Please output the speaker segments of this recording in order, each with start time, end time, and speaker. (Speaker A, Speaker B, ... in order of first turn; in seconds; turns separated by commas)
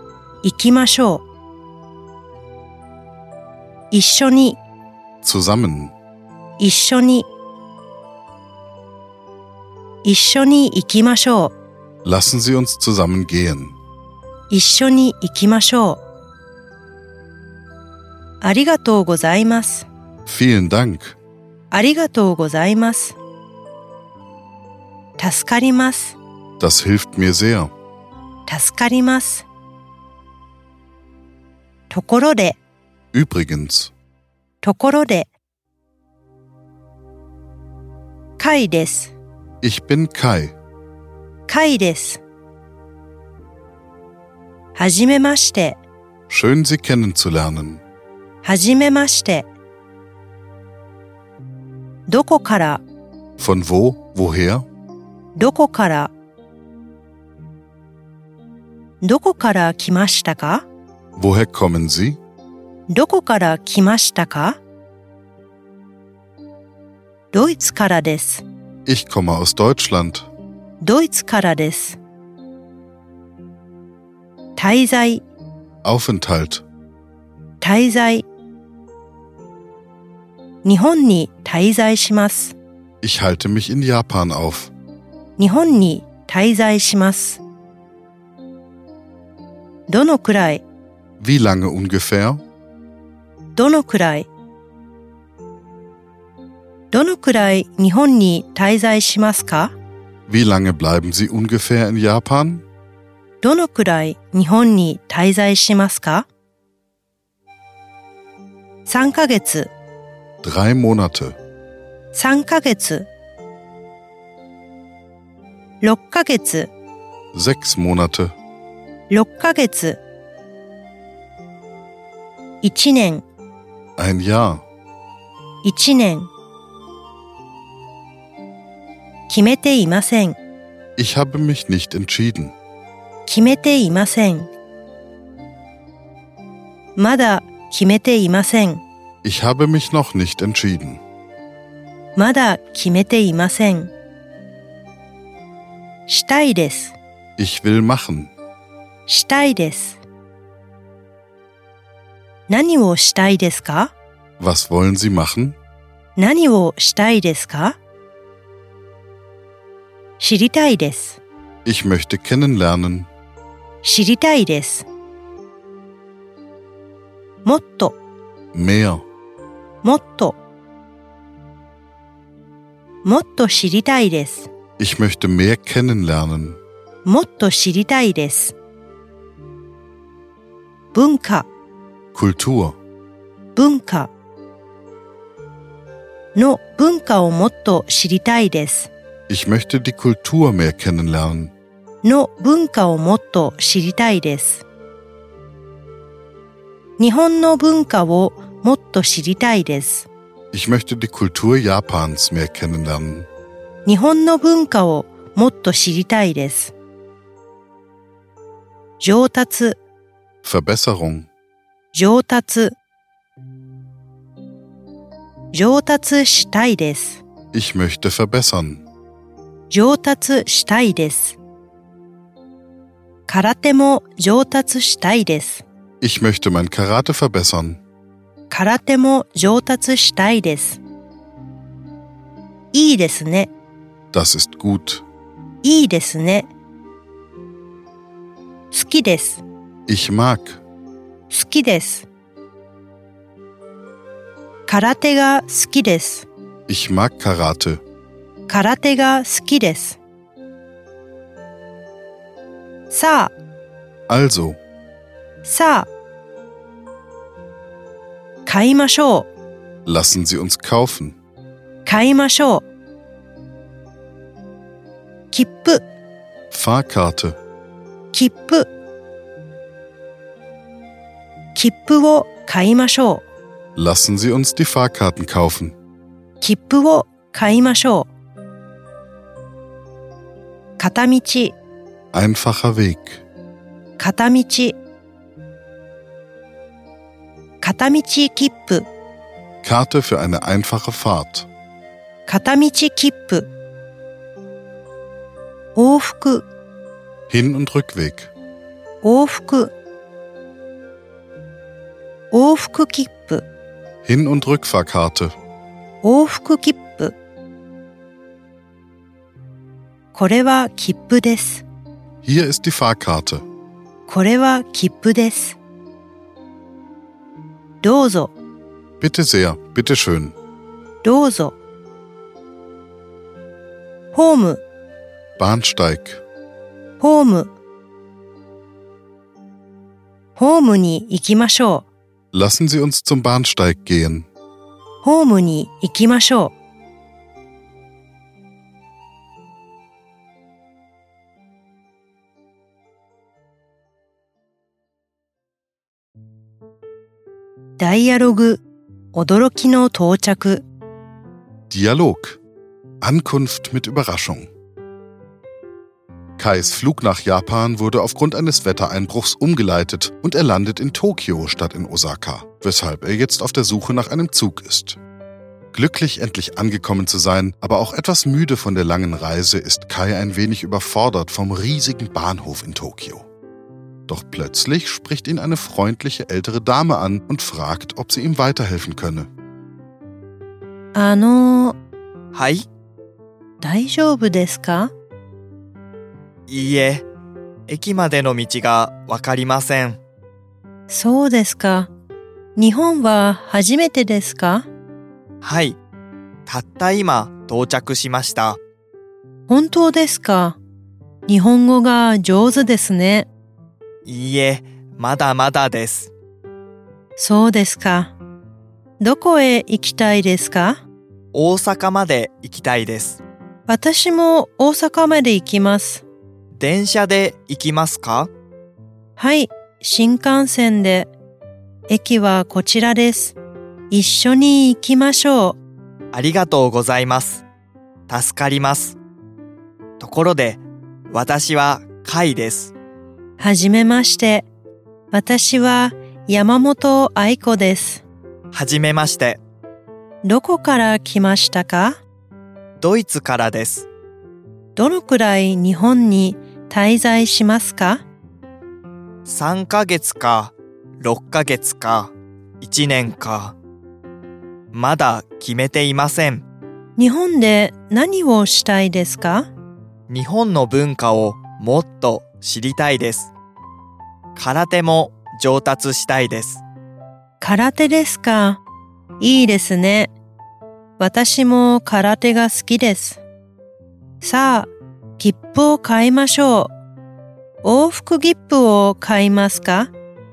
Speaker A: 0.4-1.2, Speaker A: 3.9-4.6, Speaker B: 5.2-5.9, Speaker A: 6.6-7.3, Speaker A: 10.0-11.6, Speaker B: 12.0-13.8, Speaker A: 14.5-16.0, Speaker A: 18.4-19.9, Speaker B: 20.3-21.2, Speaker A: 21.7-23.2, Speaker A: 25.2-26.2, Speaker B: 26.6-27.7, Speaker A: 28.5-29.5, Speaker A: 31.9-32.6, Speaker B: 33.1-33.9, Speaker A: 34.6-35.3, Speaker A: 38.4-39.1, Speaker B: 39.6-40.5, Speaker A: 41.5-42.2, Speaker A: 44.8-45.8, Speaker B: 46.3-47.8, Speaker A: 48.4-49.5, Speaker A: 52.1-52.8, Speaker B: 53.4-54.6, Speaker A: 55.4-56.1, Speaker A: 59.0-60.7, Speaker B: 61.2-62.2, Speaker A: 62.9-64.6, Speaker A: 67.3-68.5, Speaker B: 68.9-70.3, Speaker A: 70.8-72.0, Speaker A: 74.6-75.2, Speaker B: 75.8-76.7, Speaker A: 77.6-78.3, Speaker A: 80.6-82.5, Speaker B: 83.0-84.7, Speaker A: 85.4-87.4, Speaker A: 89.9-90.6, Speaker B: 91.2-92.4, Speaker A: 93.5-94.3, Speaker A: 96.9-99.7, Speaker B: 100.3-102.7, Speaker A: 103.4-106.3, Speaker A: 108.9-109.7, Speaker B: 110.4-111.3, Speaker A: 112.1-113.1, Speaker A: 115.8-116.7, Speaker B: 117.3-118.3, Speaker A: 119.1-120.0, Speaker A: 122.6-123.2, Speaker B: 124.0-124.7, Speaker A: 125.6-126.3, Speaker A: 129.3-130.4, Speaker B: 131.0-132.6, Speaker A: 133.3-134.5, Speaker A: 137.0-138.8, Speaker B: 139.2-141.0, Speaker A: 142.2-143.9, Speaker A: 146.1-146.9, Speaker B: 147.4-148.3, Speaker A: 149.1-150.0, Speaker A: 152.5-153.9, Speaker B: 154.4-155.6, Speaker A: 156.2-157.8, Speaker A: 160.2-161.2, Speaker B: 161.7-163.1, Speaker A: 163.8-164.9, Speaker A: 167.4-168.0, Speaker B: 168.5-169.1, Speaker A: 169.8-170.4, Speaker A: 173.0-174.5, Speaker B: 174.8-176.6, Speaker A: 177.1-178.6, Speaker A: 180.9-181.5, Speaker B: 182.1-182.8, Speaker A: 183.6-184.1, Speaker A: 186.3-188.9, Speaker B: 189.3-191.5, Speaker A: 192.0-194.6, Speaker A: 197.0-200.1, Speaker B: 200.5-203.3, Speaker A: 203.9-206.7, Speaker A: 209.0-209.8, Speaker B: 210.4-211.3, Speaker A: 211.9-212.8, Speaker A: 215.5-217.2, Speaker B: 217.5-218.8, Speaker A: 219.7-221.4, Speaker A: 223.3-225.7, Speaker B: 226.0-227.8, Speaker A: 228.5-230.8, Speaker A: 232.7-233.5, Speaker B: 234.1-235.1, Speaker A: 235.6-236.5, Speaker A: 238.7-239.4, Speaker B: 239.9-240.6, Speaker A: 241.3-242.1, Speaker A: 244.7-246.3, Speaker B: 246.7-247.8, Speaker A: 248.5-250.0, Speaker A: 252.9-253.3, Speaker B: 254.1-254.6, Speaker A: 255.4-255.9, Speaker A: 258.5-259.3, Speaker B: 259.9-261.2, Speaker A: 261.9-262.7, Speaker A: 265.3-265.8, Speaker B: 266.5-267.4, Speaker A: 268.1-268.7, Speaker A: 271.6-273.2, Speaker B: 273.8-275.8, Speaker A: 276.4-278.1, Speaker A: 280.8-281.6, Speaker B: 282.1-283.2, Speaker A: 284.0-284.8, Speaker A: 287.6-288.9, Speaker B: 289.6-291.5, Speaker A: 292.3-293.5, Speaker A: 295.8-296.5, Speaker B: 297.3-298.3, Speaker A: 299.0-299.7, Speaker A: 302.3-303.4, Speaker B: 304.1-305.4, Speaker A: 306.0-307.1, Speaker A: 310.1-311.6, Speaker B: 312.2-313.4, Speaker A: 314.1-315.6, Speaker A: 317.8-318.4, Speaker B: 319.0-320.4, Speaker A: 321.0-321.6, Speaker A: 324.1-324.6, Speaker B: 325.4-326.2, Speaker A: 327.0-327.5, Speaker A: 330.4-331.9, Speaker B: 332.3-334.3, Speaker A: 335.0-336.5, Speaker A: 347.8-348.6, Speaker A: 349.1-350.6, Speaker B: 351.7-352.4, Speaker B: 353.0-354.5, Speaker B: 356.4-365.0, Speaker B: 365.7-373.3, Speaker B: 374.1-379.3, Speaker A: 380.9-381.8, Speaker C: 382.3-382.6, Speaker A: 383.6-384.9, Speaker C: 386.5-387.1, Speaker C: 387.7-390.0, Speaker A: 390.9-391.9, Speaker A: 392.6-394.7, Speaker C: 395.4-395.8, Speaker C: 396.5-398.6, Speaker A: 399.5-400.6, Speaker A: 401.3-403.3, Speaker C: 404.1-406.1, Speaker A: 407.2-408.1, Speaker A: 409.0-410.8, Speaker C: 411.3-413.2, Speaker A: 413.7-416.1, Speaker C: 416.5-418.3, Speaker A: 419.2-421.1, Speaker A: 421.9-423.4, Speaker A: 423.9-425.6, Speaker C: 426.1-427.4, Speaker C: 428.1-429.0, Speaker C: 430.0-432.8, Speaker A: 433.4-434.5, Speaker A: 435.1-438.1, Speaker C: 438.5-439.4, Speaker A: 440.2-442.0, Speaker C: 442.8-443.9, Speaker A: 444.8-448.1, Speaker C: 449.2-453.6, Speaker C: 454.7-456.5, Speaker A: 457.0-459.5, Speaker C: 460.1-463.3, Speaker C: 464.4-466.6, Speaker A: 467.4-468.6, Speaker A: 469.2-470.1, Speaker A: 471.0-473.2, Speaker A: 474.2-476.7, Speaker A: 477.6-479.9